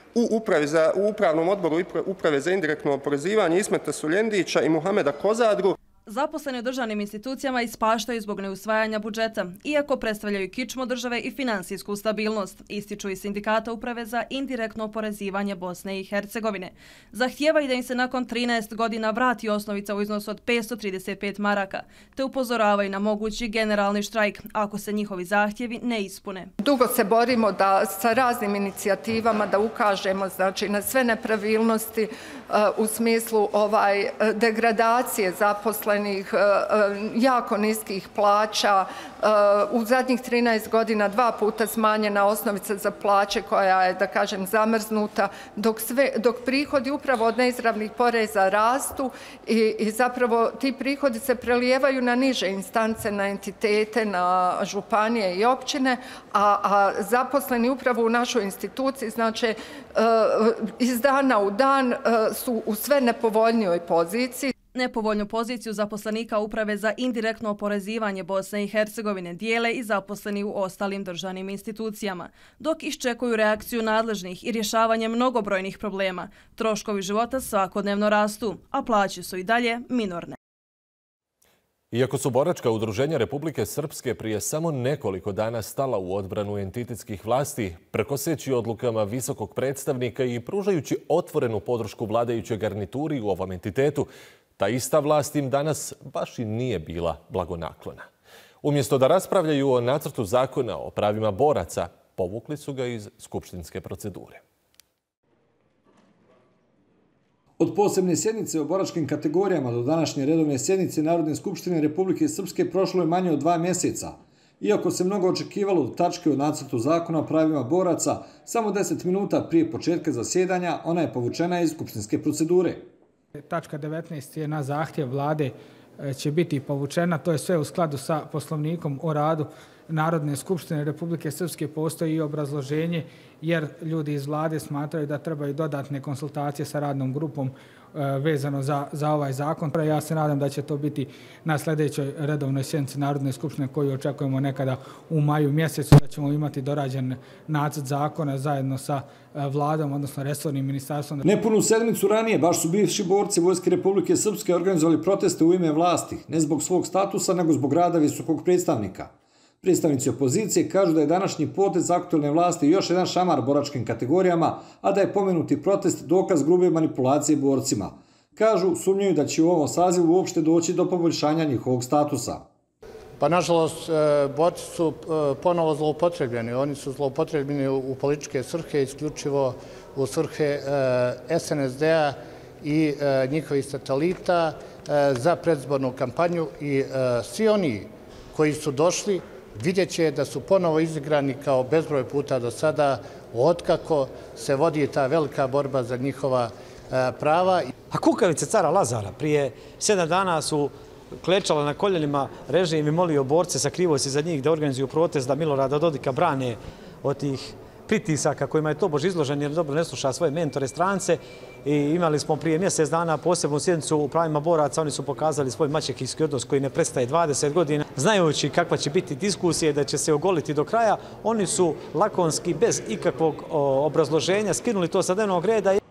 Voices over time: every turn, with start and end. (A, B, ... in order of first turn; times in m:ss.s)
0:00.2-0:05.7 A
0:06.1-0:26.5 B
0:26.6-1:04.5 C
1:04.7-1:20.4 B
1:21.9-1:38.1 D
1:38.6-1:44.4 D
1:47.6-2:02.9 E
2:03.5-2:31.3 F
2:31.3-2:52.4 E
2:53.2-3:17.7 G
3:17.9-3:45.8 H